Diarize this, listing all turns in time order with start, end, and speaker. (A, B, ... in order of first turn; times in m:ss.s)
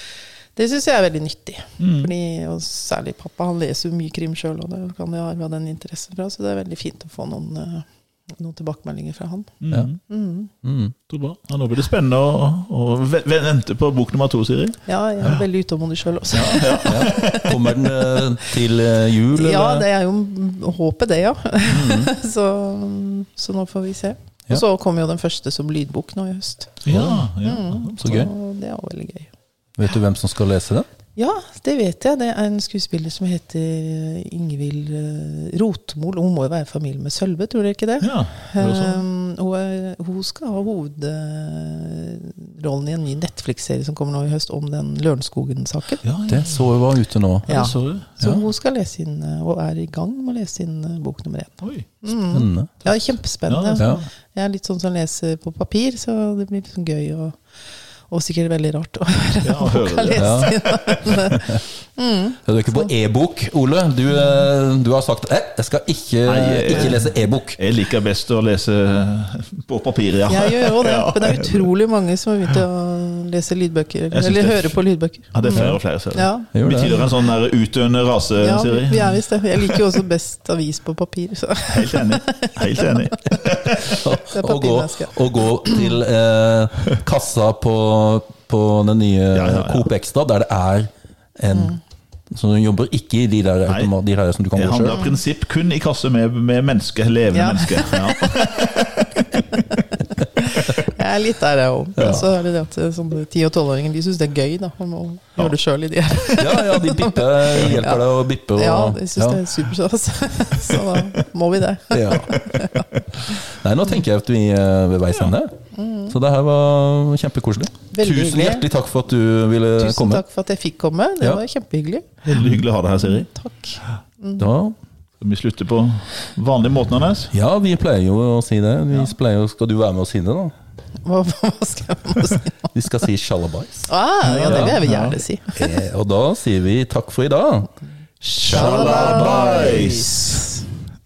0:00.6-0:10.5 A
0:01.8-0:02.1 B
0:09.6-0:10.0 B
0:10.6-0:10.9 C
0:11.1-0:15.4 B
0:14.9-0:18.3 A
0:16.3-0:17.5 B
0:16.4-0:19.8 C
0:19.3-0:29.3 A
0:21.7-0:22.1 C
0:26.8-0:28.2 B
0:28.0-0:28.3 C
0:29.8-0:30.8 C
0:31.2-0:46.0 A
0:38.0-0:39.0 B
0:46.0-0:46.6 B
0:46.3-0:47.6 C
0:47.5-0:48.2 B
0:47.5-0:57.4 A
0:52.3-0:52.7 C
0:53.5-0:54.0 B
0:53.8-0:54.0 C
0:58.1-1:02.9 A
0:59.4-1:01.4 B
1:00.2-1:00.5 C
1:01.3-1:01.6 C
1:02.4-1:07.6 C
1:06.2-1:11.7 B
1:10.3-1:16.5 A
1:14.1-1:14.8 B
1:15.3-1:19.9 B
1:15.4-1:15.8 C
1:16.5-1:17.0 C
1:18.4-1:25.9 A
1:21.7-1:24.0 B
1:23.7-1:31.8 C
1:29.3-1:29.9 B
1:31.5-1:31.8 A
1:32.3-1:35.0 C
1:34.5-1:39.4 B
1:34.9-1:35.2 A
1:37.3-1:38.3 A
1:39.3-1:39.8 A
1:40.4-1:52.9 A
1:42.0-1:42.2 C
1:46.4-1:49.4 C
1:51.9-1:52.4 C
1:52.3-1:52.7 B
1:53.2-1:55.5 C
1:55.7-1:56.1 A
1:56.1-2:00.2 C
1:57.9-1:58.6 A
1:59.8-2:02.2 A
2:02.2-2:03.3 B
2:03.1-2:04.4 A
2:04.4-2:04.7 C
2:05.2-2:07.3 B
2:07.3-2:10.5 C
2:11.0-2:12.7 A
2:12.7-2:14.8 C
2:13.9-2:15.6 A
2:14.2-2:15.2 B
2:15.5-2:17.7 C
2:18.2-2:20.6 A
2:18.4-2:19.8 C
2:18.4-2:20.4 B